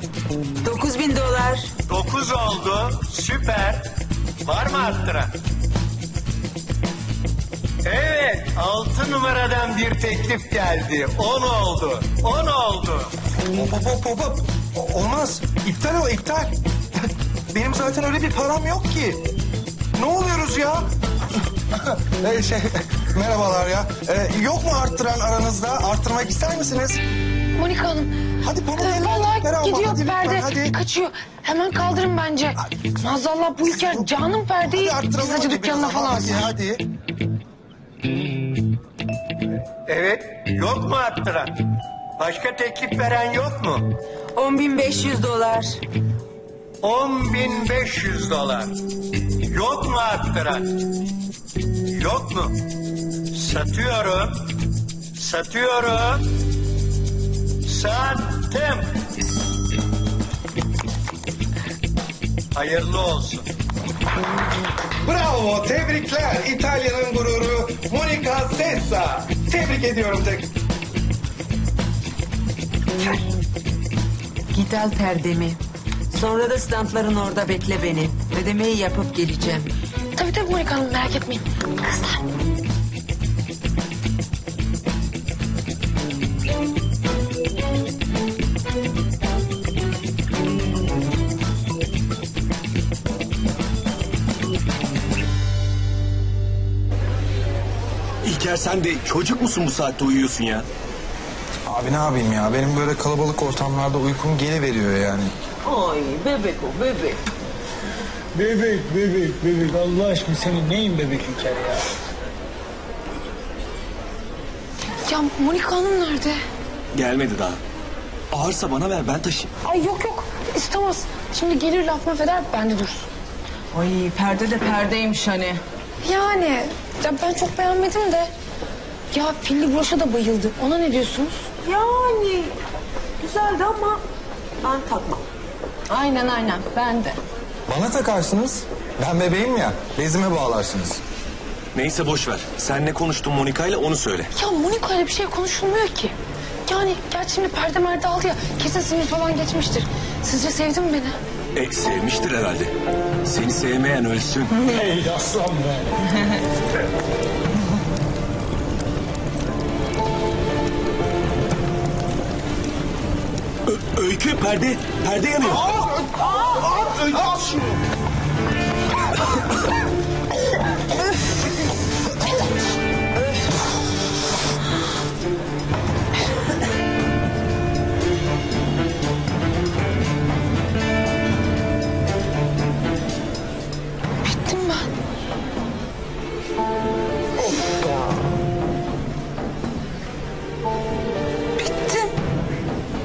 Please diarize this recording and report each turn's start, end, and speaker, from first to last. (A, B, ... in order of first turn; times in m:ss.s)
0:00.6-0:01.7 A
0:01.9-0:03.9 B
0:04.4-0:05.4 B
0:07.8-0:13.1 B
0:13.5-0:16.5 C
0:17.5-0:19.2 C
0:20.0-0:20.9 C
0:21.8-0:27.0 C
0:27.6-0:28.1 D
0:28.4-0:30.7 C
0:28.7-0:36.5 D
0:33.7-0:34.1 C
0:34.6-0:36.8 C
0:39.9-0:41.7 B
0:42.2-0:43.9 B
0:44.3-0:45.8 A
0:46.8-0:48.8 B
0:49.4-0:50.7 B
0:51.9-0:52.6 B
0:53.3-0:54.5 B
0:55.2-0:56.2 B
0:57.6-0:59.0 B
1:02.5-1:03.5 B
1:05.0-1:10.5 C
1:14.5-1:19.7 A
1:20.1-1:22.3 D
1:38.2-1:40.6 E
1:41.7-1:45.3 C
1:45.6-1:47.2 A
1:48.3-1:51.8 F
1:55.0-1:56.4 D
1:56.9-1:57.6 E
1:58.3-1:59.5 E
1:59.6-2:03.1 D
2:03.7-2:05.6 A
2:06.0-2:08.3 D
2:09.1-2:11.5 D
2:11.6-2:12.5 A
2:13.2-2:14.0 A
2:14.6-2:15.2 A
2:15.9-2:17.2 D
2:17.7-2:21.0 C
2:21.7-2:24.3 E
2:24.3-2:26.1 D
2:26.7-2:31.2 D
2:31.6-2:32.7 E
2:33.2-2:34.9 E
2:34.8-2:35.9 F
2:43.7-2:45.8 E
3:04.2-3:04.9 D
3:11.6-3:12.1 D